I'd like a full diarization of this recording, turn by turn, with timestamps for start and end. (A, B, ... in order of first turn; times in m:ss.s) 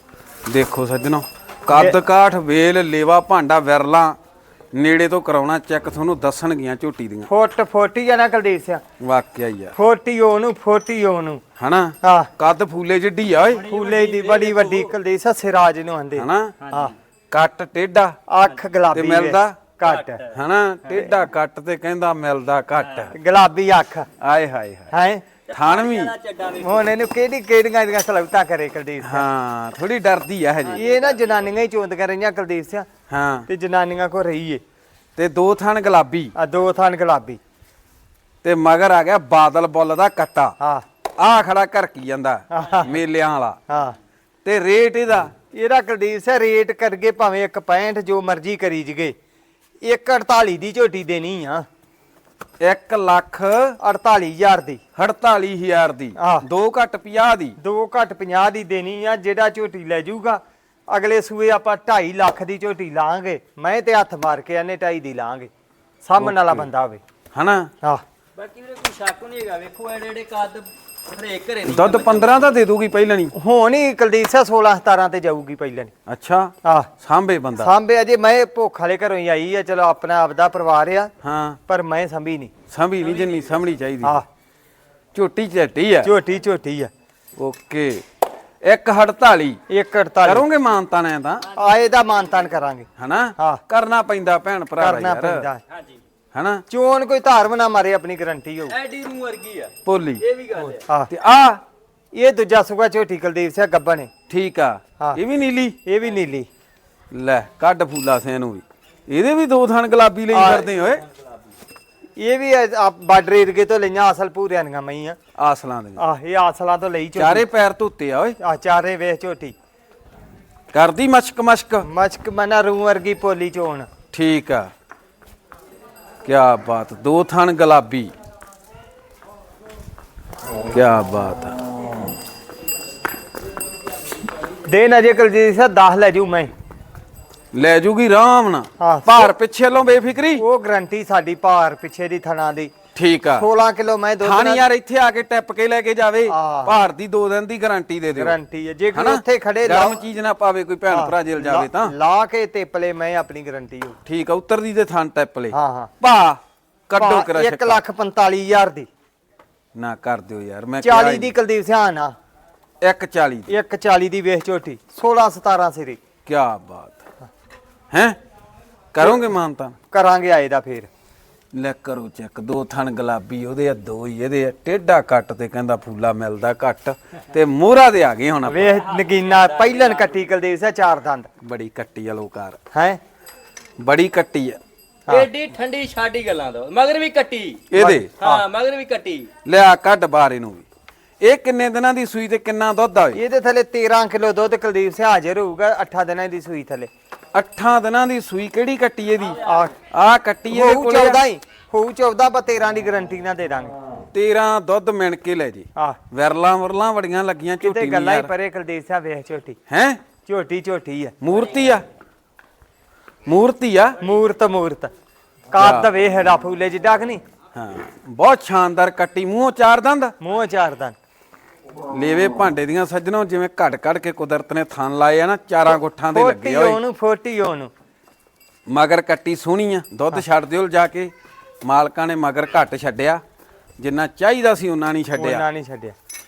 0:00.5-0:04.2 A
0:01.7-0:02.0 B
0:04.7-0:07.3 A
0:07.3-0:08.8 B
0:09.0-0:09.7 A
0:09.7-0:11.4 B
0:11.6-0:13.7 A
0:12.0-0:12.3 B
0:13.5-0:14.9 C
0:13.7-0:16.9 B
0:16.2-0:16.6 A
0:16.6-0:16.9 C
0:17.3-0:18.2 A
0:18.3-0:20.2 B
0:18.9-0:19.6 A
0:19.8-0:20.3 C
0:20.3-0:23.1 A
0:22.8-0:23.1 C
0:23.1-0:24.1 B
0:24.2-0:24.9 A
0:24.9-0:25.2 B
0:25.5-0:26.9 C
0:25.5-0:26.1 A
0:26.6-0:29.2 B
0:29.0-0:30.8 A
0:30.7-0:31.2 C
0:30.7-0:32.9 B
0:33.1-0:33.5 A
0:33.5-0:34.6 B
0:35.2-0:36.3 A
0:36.3-0:37.4 B
0:38.4-0:40.6 A
0:40.6-0:40.8 B
0:41.2-0:43.6 A
0:42.5-0:42.9 B
0:43.7-0:43.9 B
0:44.4-0:45.3 A
0:45.5-0:49.2 B
0:49.8-0:51.7 B
0:52.6-0:53.8 A
0:53.8-0:54.8 B
0:55.0-0:57.6 A
0:56.2-0:56.5 B
0:57.6-1:05.5 B
1:06.0-1:07.0 B
1:06.2-1:06.7 A
1:07.3-1:07.7 A
1:08.4-1:12.4 C
1:11.7-1:13.3 A
1:13.3-1:15.9 B
1:16.1-1:17.7 A
1:16.6-1:16.9 B
1:17.6-1:21.1 B
1:21.2-1:21.6 A
1:21.7-1:22.5 B
1:22.7-1:24.2 A
1:23.1-1:23.5 C
1:25.1-1:26.1 A
1:26.0-1:26.9 B
1:27.4-1:28.0 A
1:28.6-1:29.6 A
1:29.7-1:30.4 B
1:30.2-1:31.5 A
1:31.5-1:31.9 C
1:31.5-1:32.9 B
1:33.0-1:35.5 A
1:34.8-1:35.6 B
1:35.7-1:36.0 C
1:36.3-1:36.6 A
1:36.7-1:38.8 B
1:38.7-1:40.8 C
1:39.8-1:40.2 A
1:40.7-1:41.1 B
1:41.1-1:41.6 A
1:42.1-1:44.1 B
1:44.3-1:45.8 A
1:45.8-1:46.5 B
1:47.1-1:51.0 A
1:50.3-1:50.7 B
1:52.2-1:55.2 B
1:55.4-1:56.0 A
1:56.0-1:57.5 B
1:57.2-1:58.4 A
1:58.4-1:59.5 B
2:00.7-2:01.8 A
2:01.8-2:03.9 B
2:04.1-2:04.7 A
2:06.2-2:08.1 A
2:10.7-2:11.6 A
2:14.7-2:16.5 B
2:17.5-2:20.4 A
2:18.8-2:19.2 B
2:20.4-2:22.7 B
2:22.9-2:23.5 A
2:23.4-2:24.6 B
2:24.2-2:28.4 A
2:26.3-2:26.8 B
2:28.2-2:30.0 B
2:28.9-2:31.9 A
2:30.9-2:34.0 B
2:34.0-2:37.8 A
2:35.5-2:35.9 B
2:37.0-2:38.9 B
2:39.7-2:41.3 A
2:40.8-2:42.2 B
2:42.8-2:43.5 A
2:43.5-2:46.0 B
2:46.2-2:47.0 A
2:47.9-2:48.2 A
2:48.9-2:49.8 A
2:49.0-2:49.3 B
2:49.9-2:50.9 B
2:51.5-2:58.8 A
2:58.5-3:01.3 B
2:58.7-3:00.2 C
3:01.4-3:02.6 A
3:02.7-3:03.0 B
3:03.8-3:04.6 A
3:05.1-3:09.3 C
3:07.7-3:08.1 A
3:07.7-3:08.4 B
3:09.4-3:10.6 A
3:11.2-3:13.2 A
3:13.1-3:16.9 B
3:17.3-3:21.2 A
3:19.4-3:19.7 B
3:20.5-3:23.7 B
3:24.1-3:28.3 A
3:27.6-3:29.6 B
3:29.7-3:30.0 A
3:30.2-3:31.1 B
3:31.2-3:31.8 A
3:33.2-3:34.0 A
3:34.0-3:34.9 B
3:35.5-3:37.2 B
3:35.6-3:35.9 A
3:37.5-3:40.2 A
3:40.2-3:41.0 B
3:41.9-3:46.8 A
3:46.1-3:47.7 B
3:48.7-3:51.1 A
3:51.6-3:53.2 A
3:53.8-3:55.4 A
3:55.2-3:55.9 B